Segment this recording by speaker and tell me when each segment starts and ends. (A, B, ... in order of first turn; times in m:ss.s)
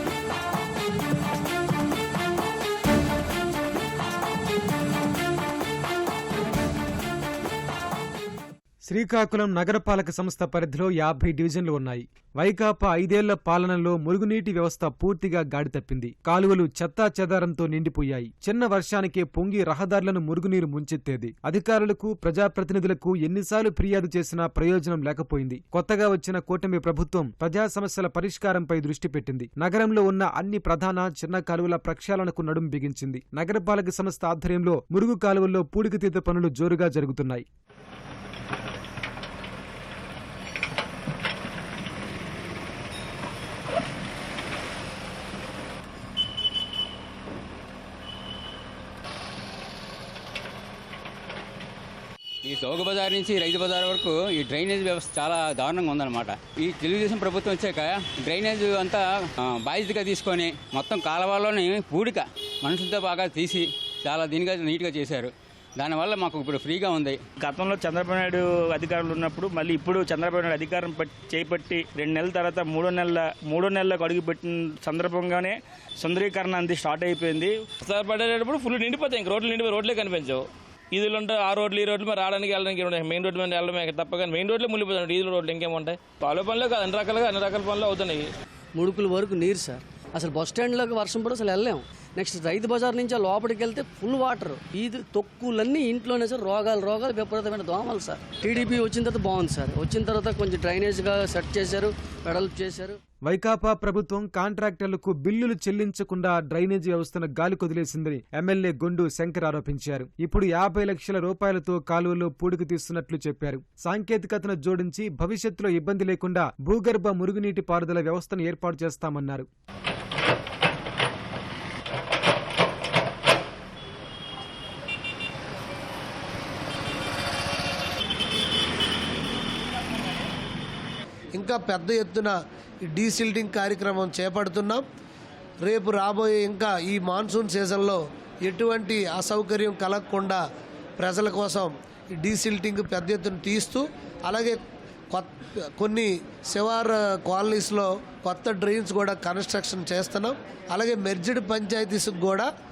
0:08.9-0:37.4 A
0:52.4-1:07.2 B
1:07.4-1:17.6 C
1:17.8-1:28.2 D
1:28.7-1:43.0 E
1:43.2-1:59.5 A
2:11.3-2:14.8 F
2:15.6-2:20.4 F
2:21.0-2:24.6 F
2:25.1-2:32.5 F